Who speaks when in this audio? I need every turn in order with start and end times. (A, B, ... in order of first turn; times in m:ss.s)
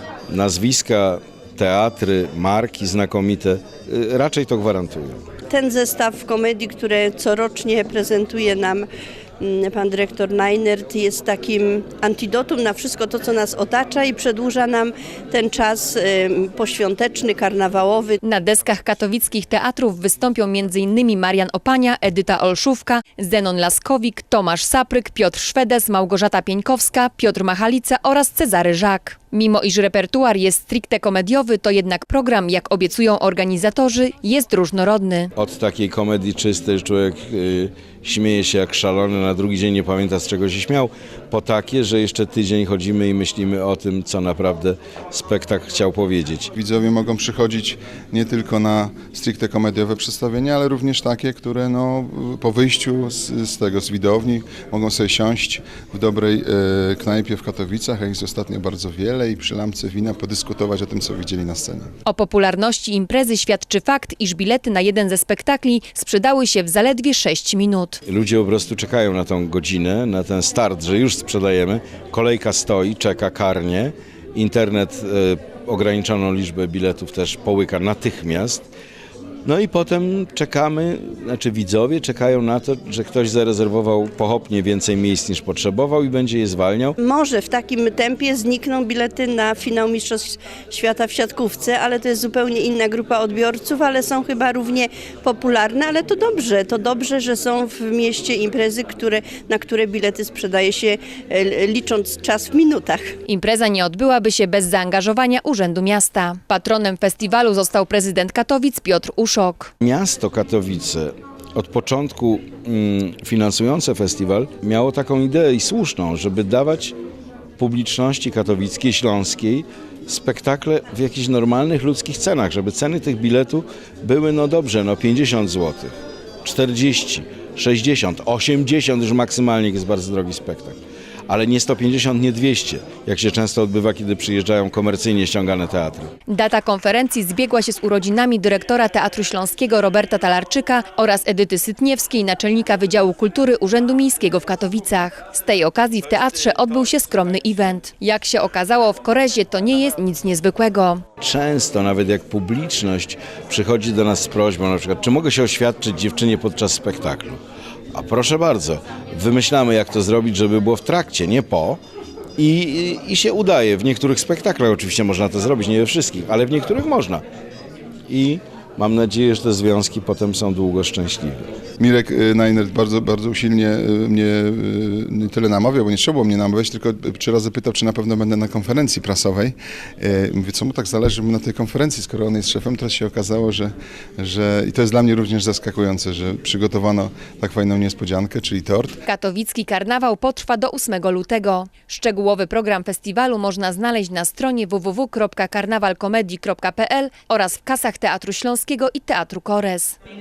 0:00.3-0:05.2 A
0:05.5-0:08.9 B
0:09.4-0:18.2 B
0:18.2-0:35.3 C
0:35.4-0:46.5 A
0:46.6-1:01.9 D
1:02.0-1:08.0 C
1:08.1-1:18.7 A
1:19.4-1:27.0 A
1:27.0-1:43.1 B
1:43.3-1:49.7 C
1:49.8-1:57.0 A
1:57.6-2:10.8 A
2:11.3-2:16.1 A
2:16.3-2:31.0 C
2:31.2-2:37.4 A
2:37.9-2:41.8 A
2:42.4-2:47.2 A
2:48.1-2:51.5 A
2:51.8-3:09.0 D
3:09.0-3:20.0 C